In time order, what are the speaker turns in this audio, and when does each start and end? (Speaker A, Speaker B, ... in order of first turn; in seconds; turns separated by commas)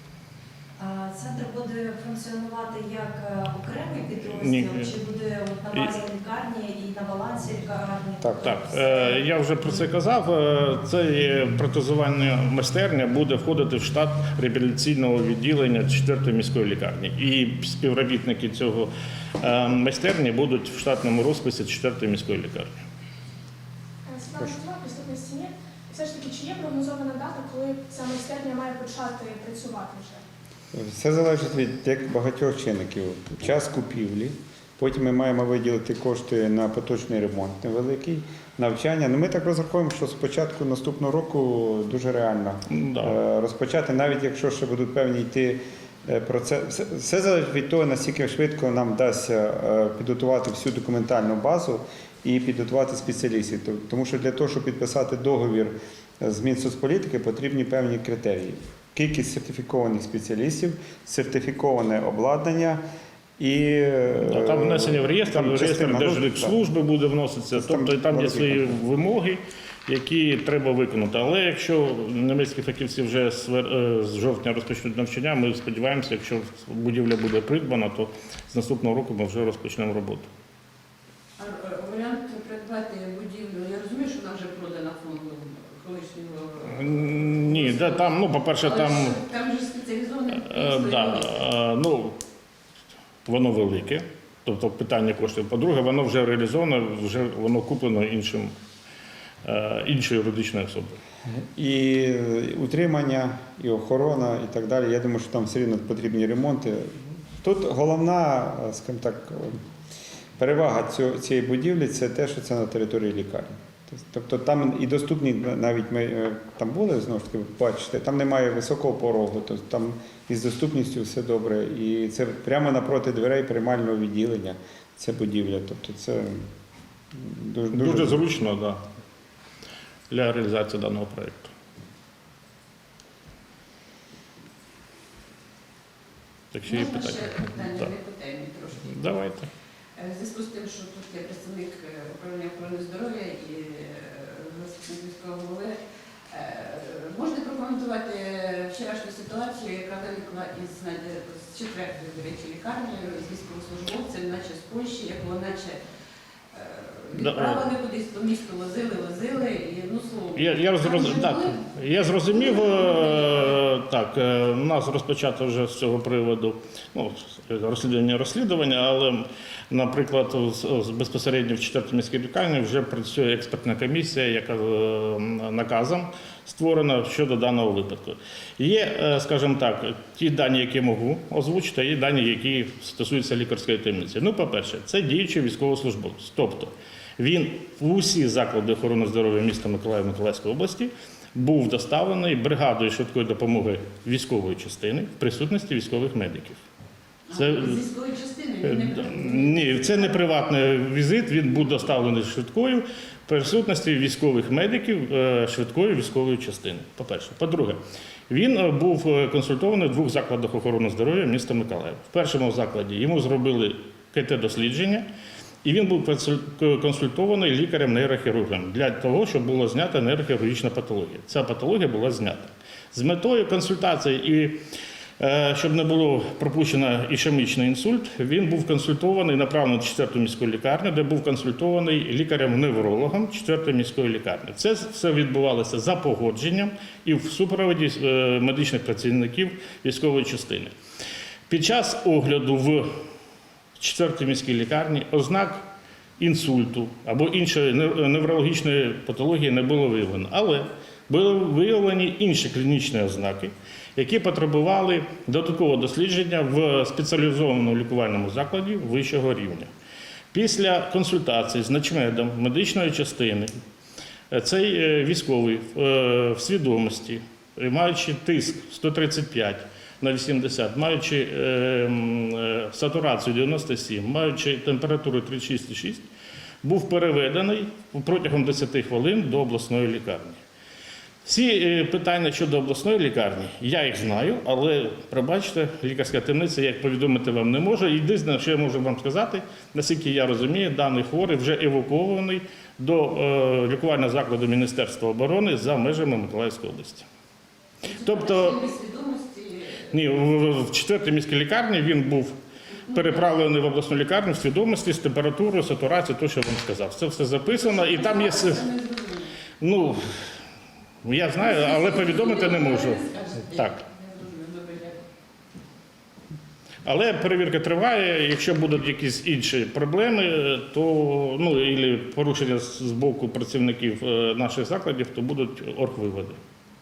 Speaker A: 0.8-9.4, Speaker B: 4.2-4.9, Speaker B: 8.4-22.8, Speaker C: 24.1-30.2, Speaker D: 30.7-62.8, Speaker B: 42.7-43.1, Speaker D: 63.4-66.5, Speaker B: 64.2-80.3, Speaker D: 67.5-68.8, Speaker E: 81.4-91.3, Speaker B: 86.6-89.2, Speaker B: 90.3-92.2, Speaker B: 93.2-98.5, Speaker B: 99.4-101.0, Speaker D: 101.5-109.6, Speaker D: 110.4-126.5, Speaker D: 127.1-128.3, Speaker B: 127.7-128.8, Speaker B: 130.1-131.5, Speaker B: 136.5-137.9, Speaker E: 136.7-138.9, Speaker B: 138.8-139.5, Speaker E: 139.9-145.8, Speaker E: 146.3-155.8, Speaker E: 156.5-163.6, Speaker B: 157.1-157.7, Speaker B: 160.3-196.6, Speaker E: 197.3-200.2, Speaker B: 197.3-197.8, Speaker B: 198.6-215.0, Speaker B: 215.6-224.6, Speaker B: 225.2-240.7, Speaker B: 241.5-243.0, Speaker B: 243.8-245.6, Speaker B: 246.2-259.7, Speaker B: 260.3-263.5, Speaker B: 264.3-276.1, Speaker B: 276.6-280.4, Speaker B: 281.2-297.1, Speaker E: 297.8-299.9, Speaker B: 298.0-298.6, Speaker B: 299.9-302.4, Speaker E: 302.9-303.2, Speaker B: 302.9-308.6, Speaker E: 307.5-309.3, Speaker B: 309.6-310.3, Speaker B: 311.0-313.0, Speaker E: 311.4-315.0, Speaker B: 313.5-313.8, Speaker B: 316.8-326.4